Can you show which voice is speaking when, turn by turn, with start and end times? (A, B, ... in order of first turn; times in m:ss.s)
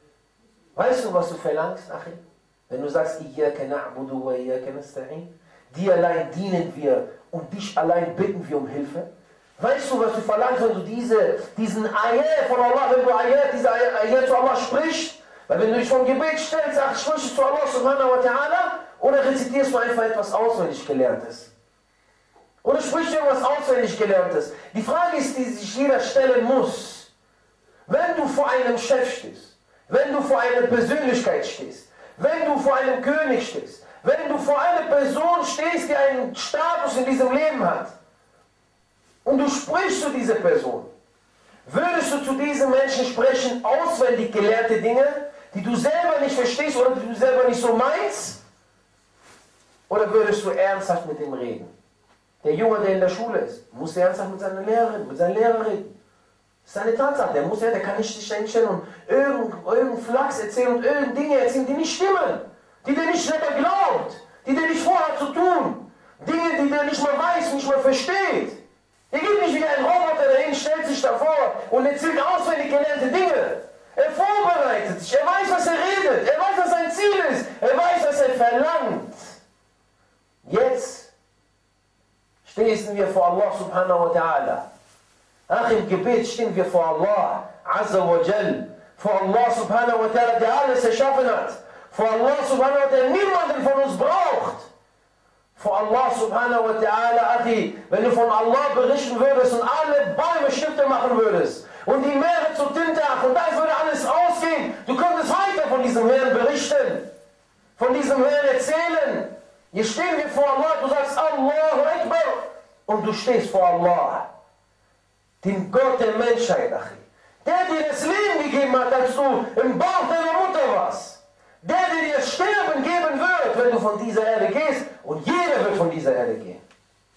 0:00.8-0:09.1 A
0:09.6-0:21.5 A
0:22.6-0:27.1 A
0:27.9-0:37.9 A
0:39.2-0:40.9 A
0:41.6-0:48.4 A
0:49.9-0:51.7 A
0:52.4-0:55.9 A
0:56.6-1:08.6 A
1:09.1-1:19.4 A
1:20.4-1:21.1 A
1:22.4-1:24.6 A
1:25.5-1:34.7 A
1:35.5-1:47.0 A
1:47.8-1:54.3 A
1:55.4-2:06.6 A